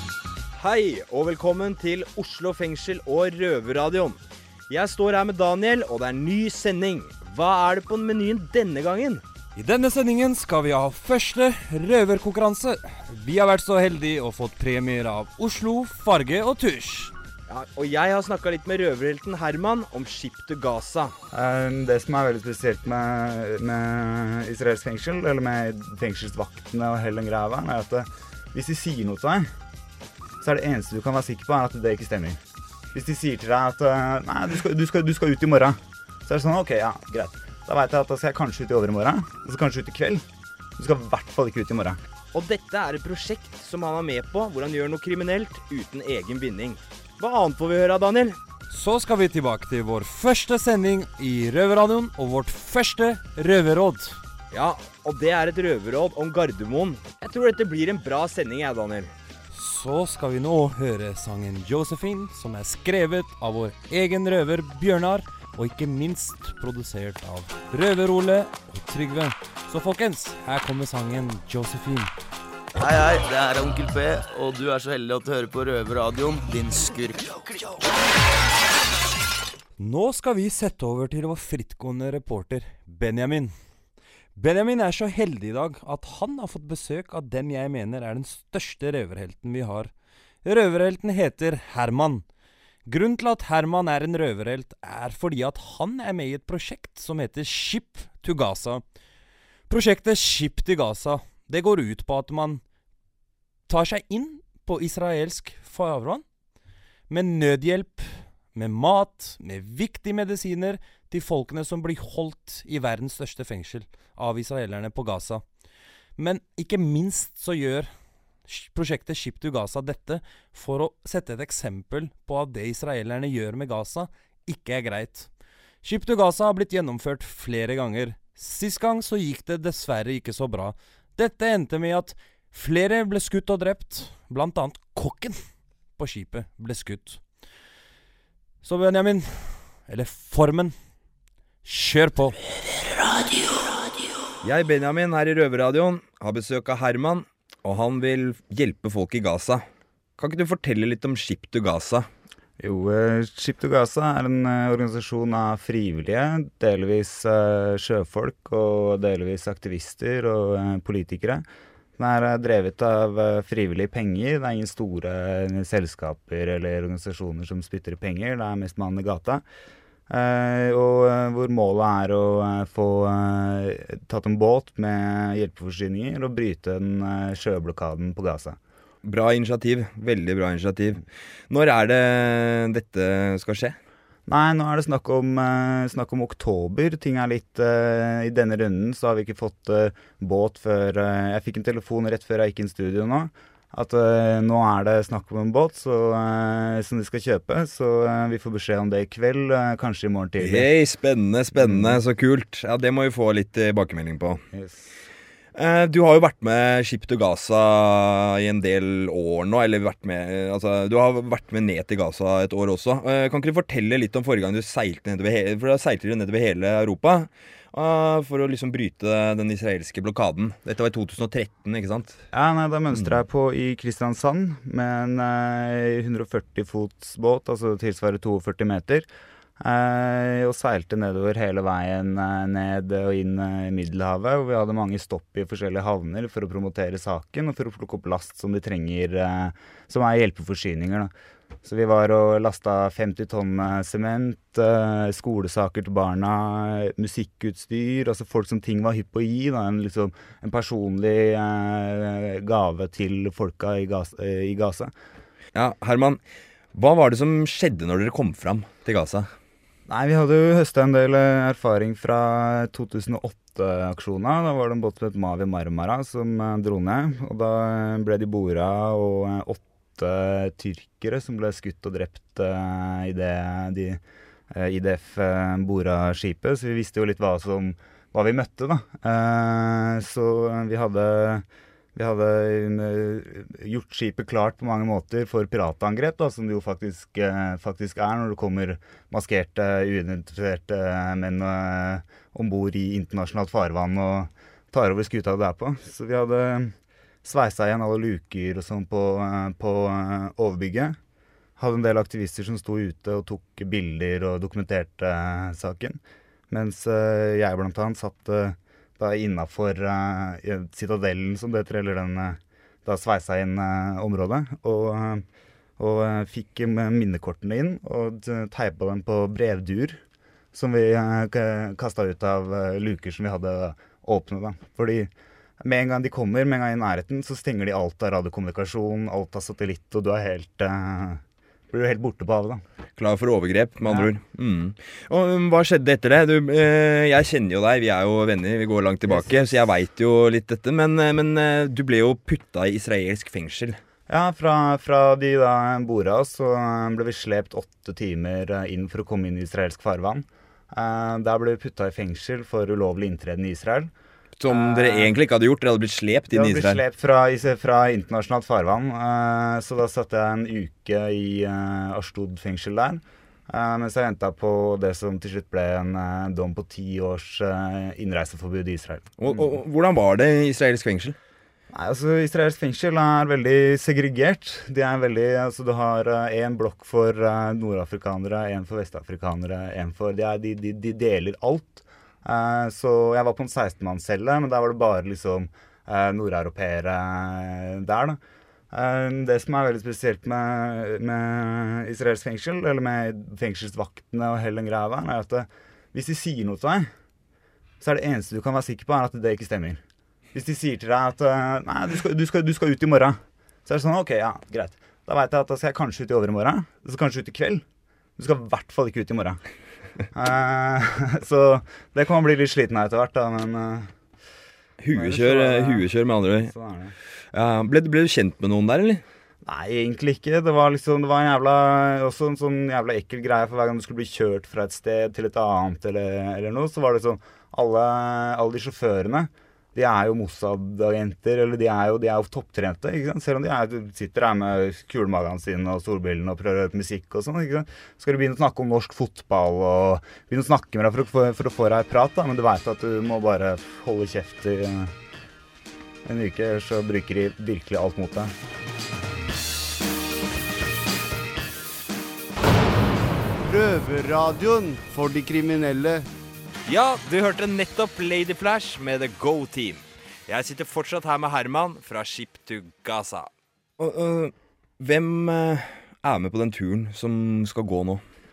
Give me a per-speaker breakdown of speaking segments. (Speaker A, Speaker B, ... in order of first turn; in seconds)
Speaker A: 0.6-9.2, 17.5-21.2, 42.3-48.4, 54.5-59.1, 144.4-149.7, 150.2-152.1, 179.0-183.8, 200.4-204.4, 205.5-222.2, 255.5-256.2, 256.7-259.3, 333.0-343.8, 354.4-356.8, 369.2-371.1, 414.8-416.5, 417.3-419.0, 456.7-468.0
Speaker B: 9.6-17.1, 48.7-54.2, 59.5-72.1, 79.8-83.5, 84.3-89.9, 90.4-92.2, 92.8-98.8, 99.7-102.6, 103.7-106.2, 107.1-115.4, 116.2-117.9, 118.5-125.3, 125.8-135.4, 136.0-137.2, 138.6-140.7, 141.6-142.4
Speaker C: 21.3-29.5, 30.4-32.4, 32.9-40.2, 40.8-42.0, 152.6-161.4, 162.0-169.4, 170.1-178.6, 184.3-200.7, 201.5-202.0, 204.5-204.8, 222.3-229.1, 229.6-241.1, 241.6-254.9, 259.9-301.0, 301.6-315.2, 315.8-320.0, 320.5-332.6, 339.1-339.4, 344.1-353.9, 354.5-355.1, 356.3-369.5, 371.7-388.2, 388.7-396.9, 397.8-399.8, 400.3-407.6, 408.2-409.4, 410.1-413.9, 414.9-416.9, 419.4-444.9, 446.0-448.3
Speaker D: 72.7-77.7
Speaker E: 453.4-456.1